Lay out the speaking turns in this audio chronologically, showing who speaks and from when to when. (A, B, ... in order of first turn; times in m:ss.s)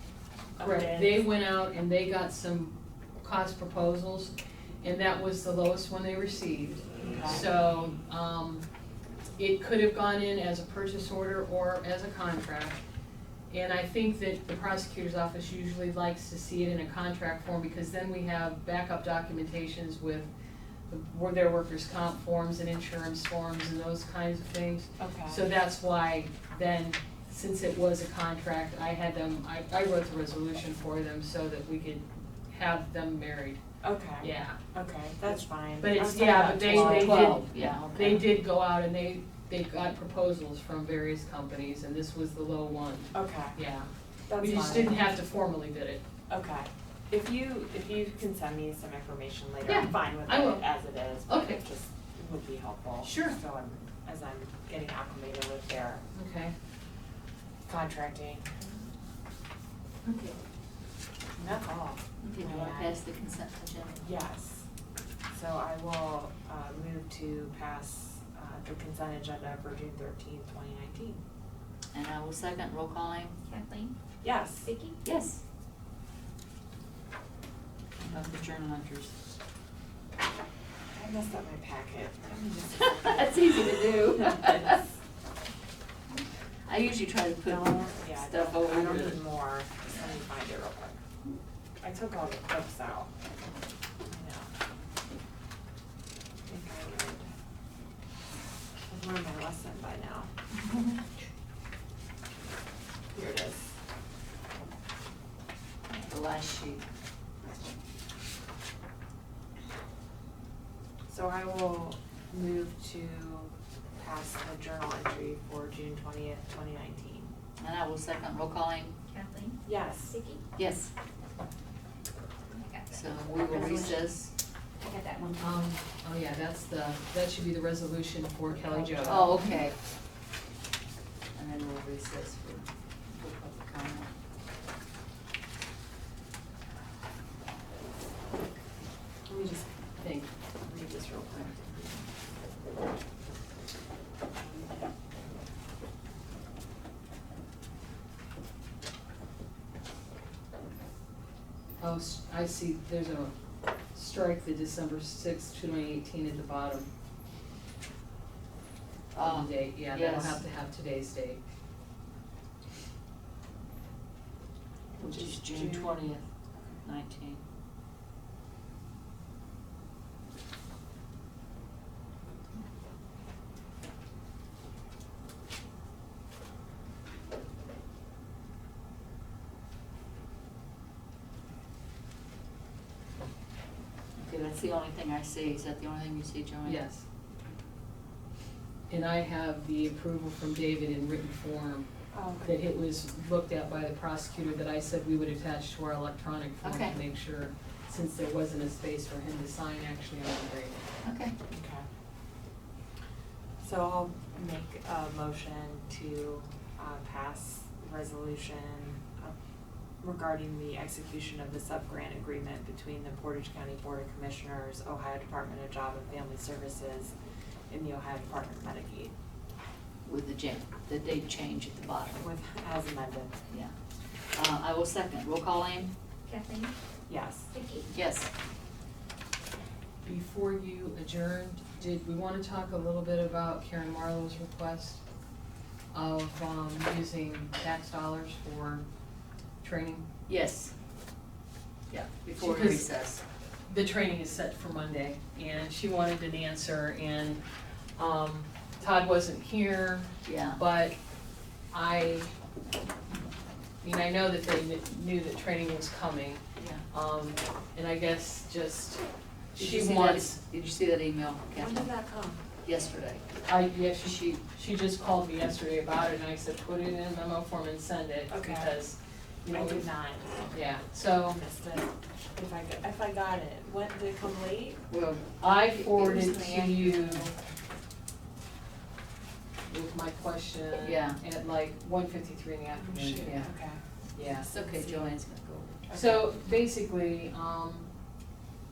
0:00.6-0:01.2 A
0:00.6-0:08.6 B
0:07.0-0:07.4 A
0:09.4-0:12.8 B
0:13.5-0:20.3 B
0:20.9-0:33.6 B
0:25.0-0:25.4 A
0:33.8-0:37.3 A
0:34.2-0:34.6 B
0:35.8-0:46.0 B
0:36.6-0:38.3 C
0:43.1-0:43.6 A
0:44.3-0:45.1 A
0:46.3-0:56.0 A
0:49.6-0:50.6 B
0:51.3-0:51.6 B
0:53.0-0:53.4 B
0:56.1-0:56.5 B
0:57.7-0:58.6 A
1:01.4-1:03.0 A
1:02.2-1:04.0 C
1:04.0-1:04.6 A
1:05.3-1:11.2 A
1:11.9-1:13.4 C
1:13.5-1:13.9 D
1:14.2-1:14.7 A
1:14.6-1:15.0 D
1:15.0-1:15.4 C
1:18.0-1:19.1 C
1:20.9-1:24.9 A
1:22.8-1:24.8 C
1:26.6-1:29.2 C
1:27.4-1:31.0 A
1:31.8-1:33.1 A
1:34.0-1:34.5 A
1:36.5-1:37.3 A
1:38.9-1:40.3 A
1:40.6-1:41.0 D
1:43.1-1:43.7 A
1:45.9-1:46.8 C
1:51.1-1:57.3 A
1:57.6-1:59.0 C
1:59.1-2:00.4 D
1:59.6-2:00.1 A
2:00.6-2:00.9 C
2:02.5-2:04.0 D
2:02.9-2:04.3 C
2:04.8-2:05.7 D
2:05.4-2:09.3 B
2:09.0-2:09.8 C
2:11.3-2:14.1 C
2:19.3-2:21.5 B
2:31.8-2:33.3 B
2:33.9-2:36.9 B
2:39.1-2:40.4 C
2:39.2-2:41.4 B
2:45.0-2:46.2 C
2:45.0-2:46.0 A
2:46.5-2:46.8 A
2:46.8-2:47.4 C
3:04.2-3:06.8 C
3:06.6-3:07.0 B
3:08.9-3:11.9 B
3:12.1-3:12.6 A
3:12.4-3:20.8 B
3:16.6-3:17.0 C
3:21.0-3:21.3 C
3:21.5-3:21.8 A
3:23.6-3:29.3 A
3:30.0-3:37.1 A
3:37.7-3:39.1 A
3:40.0-3:42.2 C
3:42.2-3:43.4 A
3:44.3-3:45.9 C
3:46.2-3:46.7 D
3:47.1-3:47.5 A
3:47.5-3:47.9 D
3:47.9-3:48.3 C
3:50.0-3:55.0 B
3:55.9-3:58.8 B
3:59.6-4:00.1 B
4:00.3-4:00.7 C
4:01.9-4:03.2 C
4:02.4-4:02.9 B
4:03.7-4:07.4 B
4:08.0-4:11.0 B
4:10.2-4:10.6 C
4:11.7-4:12.3 B
4:13.8-4:19.0 B
4:16.6-4:16.8 C
4:19.5-4:20.4 B
4:19.6-4:21.9 C
4:21.6-4:22.4 A
4:22.6-4:23.3 C
4:23.4-4:29.9 B
4:24.0-4:24.4 C
4:28.3-4:28.7 A
4:29.5-4:30.6 A
4:30.5-4:31.4 B
4:31.2-4:34.8 A
4:34.9-4:36.4 C
4:35.4-4:37.3 B
4:36.0-4:37.3 A
4:39.7-4:43.5 B
4:40.7-4:41.2 C
4:42.7-4:43.8 A
4:44.1-4:44.5 B
4:44.4-4:45.8 C
4:45.9-4:46.2 A
4:45.9-4:47.9 B